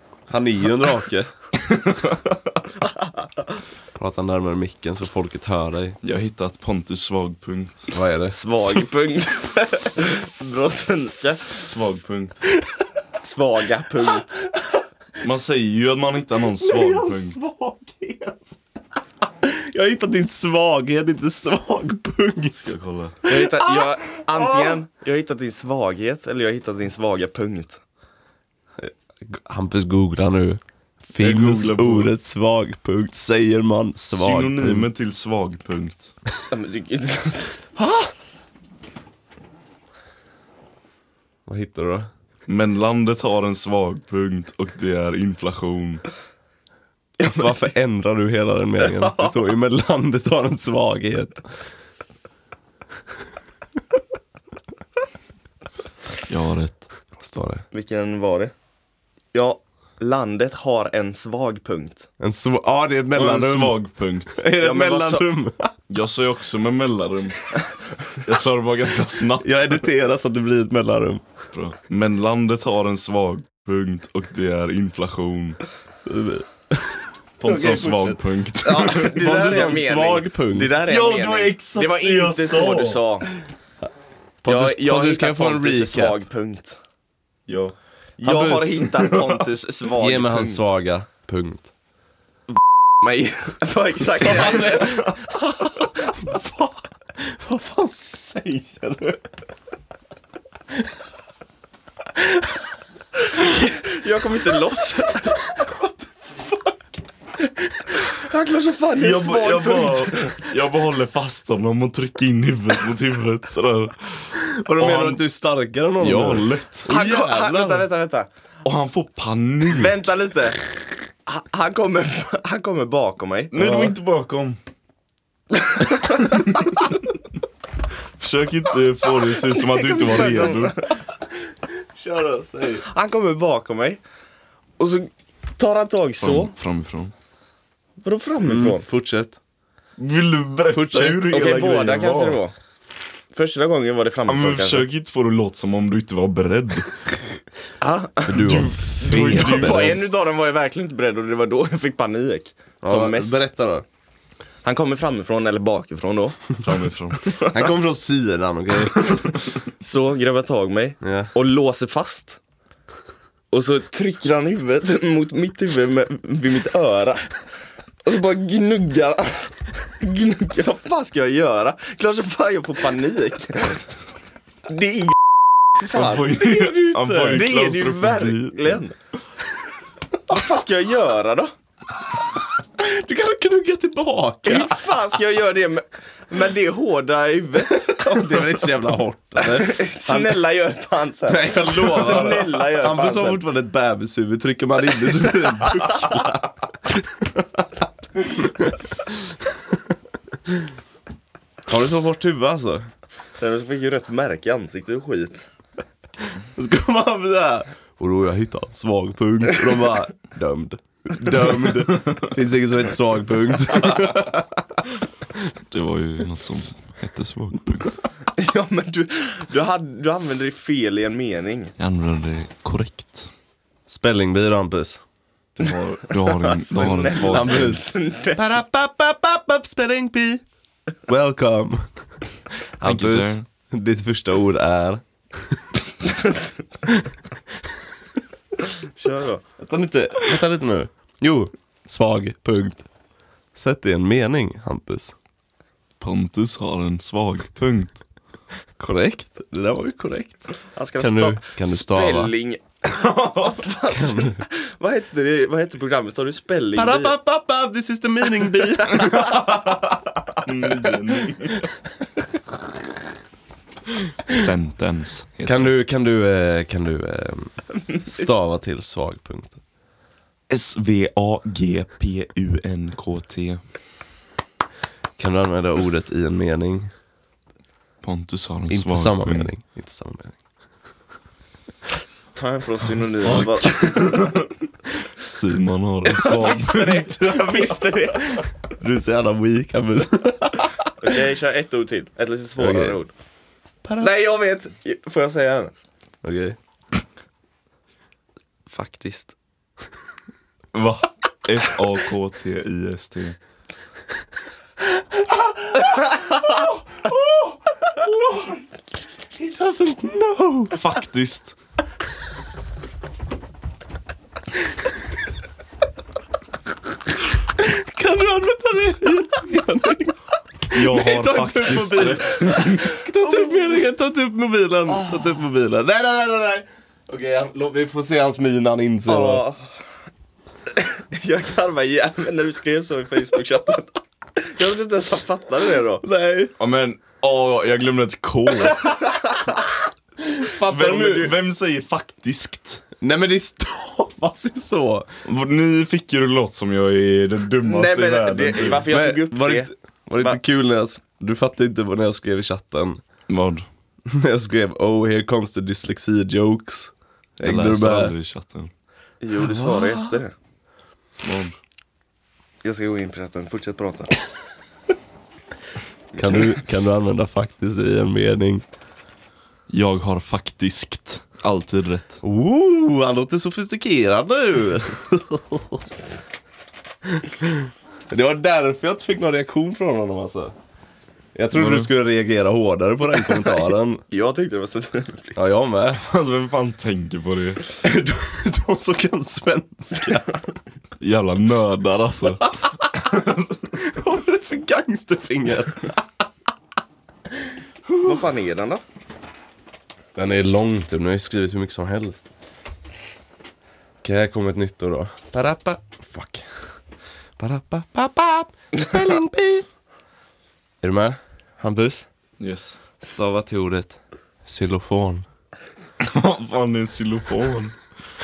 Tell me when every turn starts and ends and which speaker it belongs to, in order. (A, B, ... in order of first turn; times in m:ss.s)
0:00.3-0:01.3 A
0:03.9-0:06.0 A
0:06.0-0:07.9 B
0:07.9-0:08.8 A
0:08.3-0:11.6 C
0:11.6-0:12.4 B
0:13.2-0:14.3 C
0:15.2-0:17.4 B
0:16.6-0:18.6 A
0:19.4-0:22.7 A
0:22.5-0:23.2 B
0:23.2-0:24.8 A
0:23.2-0:27.8 C
0:28.8-0:34.9 A
0:31.2-0:32.1 B
0:34.1-0:36.1 B
0:36.5-0:37.6 C
0:37.8-0:38.1 A
0:41.5-0:42.1 A
0:42.5-0:46.0 B
0:47.2-0:47.7 C
0:47.2-0:51.4 A
0:49.0-0:49.3 C
0:56.3-0:56.9 B
0:57.2-0:57.6 A
0:57.7-0:58.5 C
0:59.3-1:02.1 C
1:02.2-1:03.8 A
1:03.1-1:04.4 B
1:04.3-1:05.7 A
1:04.6-1:05.3 C
1:05.9-1:07.5 B
1:08.2-1:09.8 B
1:09.4-1:11.2 A
1:11.5-1:15.6 B
1:16.0-1:18.2 A
1:17.4-1:19.4 B
1:18.6-1:23.3 C
1:18.9-1:20.7 A
1:20.8-1:23.0 B
1:24.4-1:26.2 A
1:24.4-1:26.8 C
1:27.5-1:27.7 B
1:28.2-1:28.9 A
1:28.2-1:30.6 C
1:28.9-1:29.4 B
1:30.0-1:31.7 A
1:33.0-1:35.4 C
1:34.0-1:39.2 A
1:42.2-1:42.5 A
1:43.4-1:45.5 C
1:45.5-1:48.1 A
1:48.0-1:50.4 C
1:48.9-1:55.2 B
1:54.3-1:57.9 A
1:56.0-1:56.9 B
1:56.9-1:58.3 C
1:58.6-2:00.0 B
1:59.7-2:03.5 C
2:03.5-2:04.6 B
2:03.6-2:03.9 A
2:05.5-2:06.5 C
2:08.2-2:10.9 B
2:09.4-2:10.9 C
2:11.7-2:12.8 A
2:12.8-2:14.0 C
2:14.8-2:16.5 C
2:16.2-2:17.1 B
2:18.0-2:18.8 C
2:18.4-2:19.4 A
2:20.0-2:22.4 B
2:20.7-2:22.0 A
2:21.3-2:22.5 C
2:23.3-2:24.8 C
2:24.3-2:27.0 B
2:27.8-2:33.3 C
2:28.2-2:30.0 A
2:28.3-2:30.1 B
2:32.8-2:33.8 A
2:34.6-2:36.6 C
2:36.6-2:37.2 B
2:37.2-2:37.6 C
2:37.4-2:39.2 A
2:39.7-2:42.4 C
2:41.0-2:41.3 A
2:43.5-2:47.4 C
2:48.0-2:53.9 C
2:54.7-2:55.2 C
2:55.7-2:56.3 C
2:55.9-2:58.8 B
2:56.3-2:57.4 A
2:57.2-2:58.9 C
3:00.3-3:01.5 C
3:02.8-3:04.8 A
3:04.4-3:08.6 C
3:07.7-3:10.4 A
3:09.4-3:13.4 C
3:11.3-3:17.6 A
3:15.2-3:16.0 C
3:18.2-3:19.3 A
3:21.7-3:22.9 A
3:23.4-3:25.4 C
3:26.5-3:34.6 A
3:35.7-3:37.9 B
3:38.3-3:41.7 C
3:41.8-3:43.3 B
3:43.9-3:45.0 A
3:45.6-3:47.8 B
3:46.2-3:48.5 C
3:47.0-3:50.4 A
3:51.1-3:51.9 A
3:52.8-3:55.6 A
3:52.8-3:53.4 B
3:58.9-3:59.4 C
3:59.6-4:02.8 A
4:03.5-4:05.1 A
4:06.0-4:08.0 B
4:08.8-4:12.3 A
4:10.7-4:17.1 C
4:12.9-4:13.6 B
4:13.9-4:14.4 A
4:16.8-4:19.6 A
4:20.4-4:21.6 B
4:24.3-4:25.7 B
4:25.4-4:29.6 A
4:30.5-4:33.6 B
4:35.2-4:36.9 A
4:38.0-4:39.5 B
4:38.7-4:40.4 A
4:42.3-4:44.3 C
4:43.2-4:44.5 B
4:45.2-4:47.2 B
4:46.0-4:48.4 C
4:48.3-4:50.9 A
4:51.0-4:53.1 C
4:52.6-4:53.0 A
4:53.8-4:54.1 A
4:54.0-4:55.8 C
4:56.2-4:56.6 A
4:58.7-4:59.3 C
5:00.7-5:03.4 B
5:04.8-5:08.7 A
5:09.4-5:10.9 A
5:10.7-5:11.5 B
5:17.6-5:20.2 A
5:20.7-5:29.4 A
5:20.7-5:22.9 B
5:23.1-5:23.7 C
5:29.1-5:29.6 C
5:30.8-5:36.0 C
5:36.0-5:36.5 A
5:36.6-5:38.9 B
5:40.2-5:41.3 A
5:40.6-5:42.8 B
5:43.0-5:45.1 A
5:45.2-5:48.9 B
5:47.6-5:50.4 C
5:48.9-5:53.0 A
5:53.3-5:53.7 B
5:54.1-5:58.1 A
5:57.4-5:58.7 B
5:59.2-6:00.3 C
5:59.4-6:00.2 A
6:01.2-6:01.6 B
6:02.6-6:04.1 C
6:06.1-6:08.6 A
6:09.7-6:12.2 B
6:12.2-6:15.8 A
6:17.1-6:20.5 A
6:21.3-6:24.0 A
6:21.5-6:21.9 B
6:24.1-6:25.4 C
6:25.4-6:26.0 A
6:26.0-6:27.6 B
6:27.8-6:30.4 A
6:31.0-6:32.5 B
6:33.7-6:36.0 A
6:38.0-6:38.8 C
6:40.1-6:42.2 A
6:44.0-6:46.6 A
6:47.4-6:49.6 A
6:50.8-6:52.0 A
6:52.4-6:52.8 B
6:53.0-6:55.2 A
6:56.0-6:57.8 B